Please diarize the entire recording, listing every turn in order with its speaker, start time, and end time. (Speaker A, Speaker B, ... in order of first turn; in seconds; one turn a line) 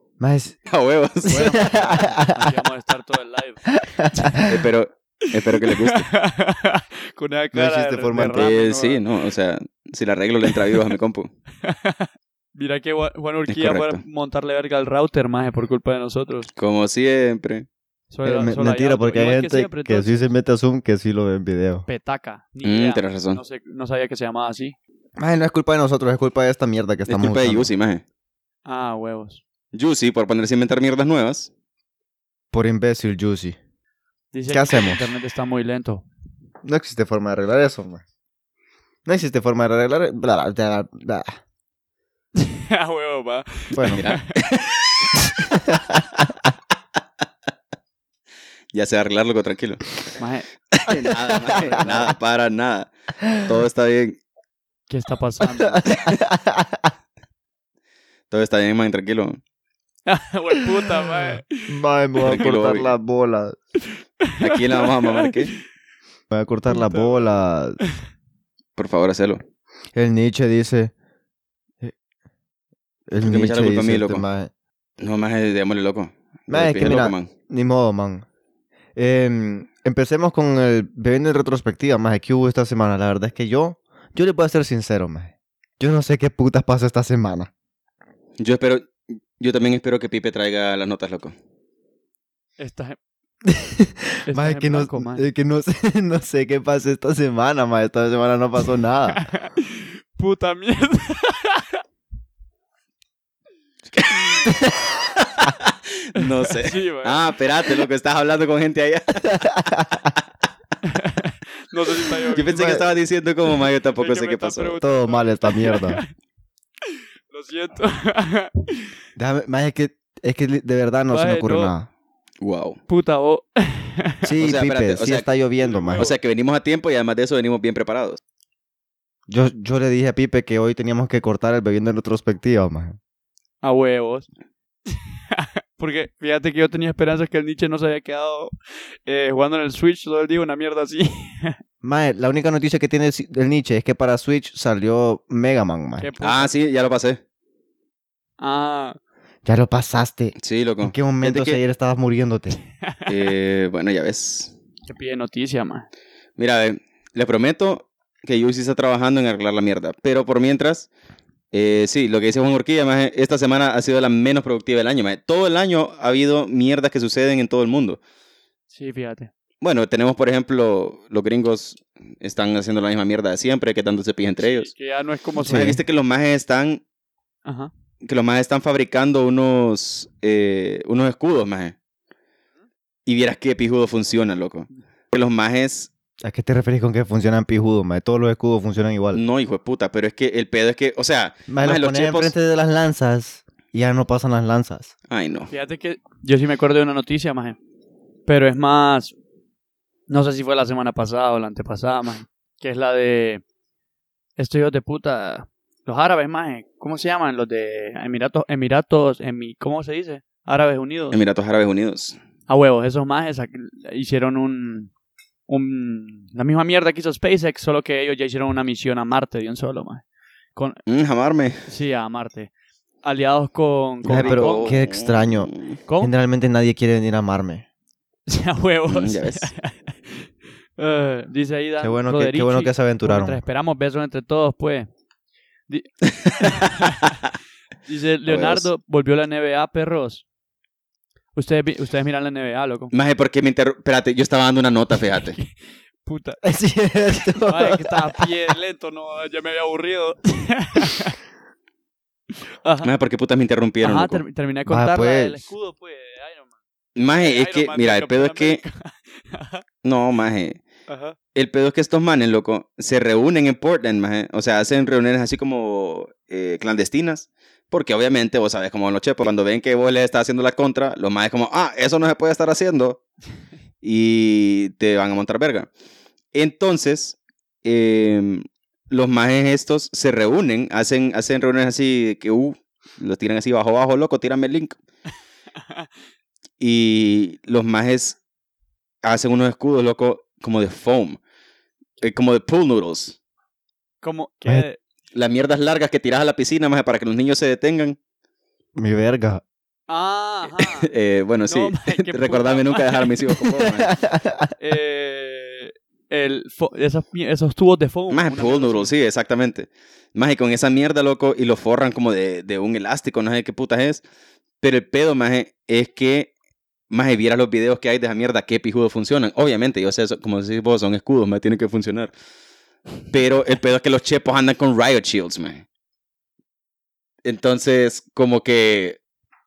Speaker A: 0.2-0.6
Speaker B: 0.7-1.9
Speaker C: 1.3-4.5
Speaker A: 1.3-2.5
Speaker A: 3.7-4.6
Speaker B: 4.5-6.1
Speaker C: 5.3-9.0
Speaker A: 7.5-8.5
Speaker B: 8.3-11.3
Speaker C: 10.5-10.8
Speaker C: 11.6-16.5
Speaker B: 13.5-14.0
Speaker B: 16.6-17.7
Speaker C: 18.1-20.3
Speaker A: 18.2-21.9
Speaker C: 21.9-24.8
Speaker B: 22.6-23.4
Speaker A: 25.2-27.7
Speaker B: 27.1-28.0
Speaker C: 28.7-29.4
Speaker B: 29.7-31.5
Speaker A: 32.5-33.6
Speaker C: 34.3-36.0
Speaker A: 34.5-35.1
Speaker A: 36.6-38.0
Speaker A: 39.1-41.4
Speaker C: 42.4-44.4
Speaker A: 43.7-44.0
Speaker B: 43.8-45.2
Speaker A: 45.7-46.0
Speaker B: 48.7-50.0
Speaker C: 50.2-50.5
Speaker B: 50.7-54.2
Speaker A: 50.9-51.2
Speaker C: 51.3-52.1
Speaker A: 51.8-52.1
Speaker C: 54.9-56.1
Speaker A: 55.6-56.9
Speaker B: 58.3-59.4
Speaker C: 60.1-61.8
Speaker A: 61.7-63.6
Speaker B: 62.2-62.9
Speaker C: 63.8-65.4
Speaker B: 64.4-65.5
Speaker A: 66.3-67.8
Speaker C: 66.7-67.3
Speaker B: 68.8-69.4
Speaker A: 69.9-70.9
Speaker A: 73.1-74.5
Speaker B: 73.2-74.2
Speaker B: 75.0-77.3
Speaker A: 76.5-78.2
Speaker A: 79.0-87.5
Speaker B: 88.4-91.3
Speaker C: 92.6-93.0
Speaker A: 93.5-99.3
Speaker C: 94.3-95.2
Speaker C: 99.1-101.8
Speaker B: 104.0-104.5
Speaker A: 104.5-104.9
Speaker B: 105.2-110.1
Speaker C: 106.2-107.2
Speaker A: 109.2-110.1
Speaker C: 110.8-112.7
Speaker B: 112.3-114.8
Speaker A: 112.5-112.8
Speaker C: 114.0-116.1
Speaker A: 114.8-116.0
Speaker C: 116.8-119.0
Speaker A: 119.2-121.9
Speaker C: 121.1-121.7
Speaker B: 122.4-122.8
Speaker C: 122.9-124.3
Speaker A: 124.2-126.1
Speaker B: 124.4-125.3
Speaker C: 125.6-126.2
Speaker B: 125.9-128.2
Speaker A: 129.3-133.0
Speaker C: 133.6-134.3
Speaker C: 134.9-141.6
Speaker A: 141.8-146.1
Speaker C: 146.0-146.5
Speaker B: 146.2-147.2
Speaker C: 148.4-149.0
Speaker A: 149.4-152.6
Speaker B: 150.4-151.6
Speaker C: 152.8-153.2
Speaker B: 153.1-154.5
Speaker C: 154.9-155.9
Speaker B: 156.4-160.9
Speaker B: 161.5-168.0
Speaker C: 168.7-169.3
Speaker B: 169.6-174.7
Speaker C: 174.4-175.8
Speaker A: 175.4-175.8
Speaker B: 175.5-176.8
Speaker C: 177.5-177.7
Speaker B: 178.0-181.8
Speaker B: 183.1-185.9
Speaker A: 186.2-189.2
Speaker B: 189.1-192.3
Speaker A: 191.5-194.9
Speaker B: 195.1-195.5
Speaker C: 195.5-197.6
Speaker C: 198.3-199.1
Speaker C: 200.1-203.4
Speaker C: 204.4-211.2
Speaker B: 211.1-212.2
Speaker C: 212.5-214.9
Speaker C: 215.5-220.0
Speaker C: 220.6-220.8
Speaker B: 220.9-221.6
Speaker C: 221.7-222.5
Speaker C: 223.0-224.8
Speaker B: 224.0-225.8
Speaker A: 224.1-225.5
Speaker C: 225.9-226.1
Speaker A: 226.0-227.7
Speaker C: 228.3-234.9
Speaker B: 228.9-229.5
Speaker A: 231.8-233.4
Speaker C: 235.7-237.2
Speaker B: 236.1-236.9
Speaker C: 237.9-240.2
Speaker B: 238.3-238.7
Speaker C: 241.4-242.9
Speaker B: 242.9-245.4
Speaker C: 245.2-245.5
Speaker C: 246.0-246.4
Speaker A: 246.4-248.3
Speaker C: 247.5-251.2
Speaker C: 252.6-252.9
Speaker B: 252.8-254.2
Speaker C: 253.8-256.5
Speaker A: 254.7-255.5
Speaker B: 257.0-258.6
Speaker C: 257.1-259.6
Speaker B: 259.8-260.6
Speaker C: 260.9-261.2
Speaker B: 261.3-273.0
Speaker B: 273.8-275.7
Speaker B: 276.3-284.8
Speaker C: 285.6-285.9
Speaker B: 286.6-288.2
Speaker B: 289.0-291.2
Speaker B: 292.0-293.2
Speaker C: 294.0-294.8
Speaker B: 295.1-298.0
Speaker A: 298.8-299.4
Speaker C: 299.9-300.9
Speaker B: 300.6-303.9
Speaker C: 301.5-303.1
Speaker A: 303.7-304.5
Speaker C: 304.6-308.9
Speaker B: 308.1-314.0
Speaker B: 314.6-316.3
Speaker B: 316.9-322.1
Speaker B: 323.1-325.6
Speaker B: 327.2-329.0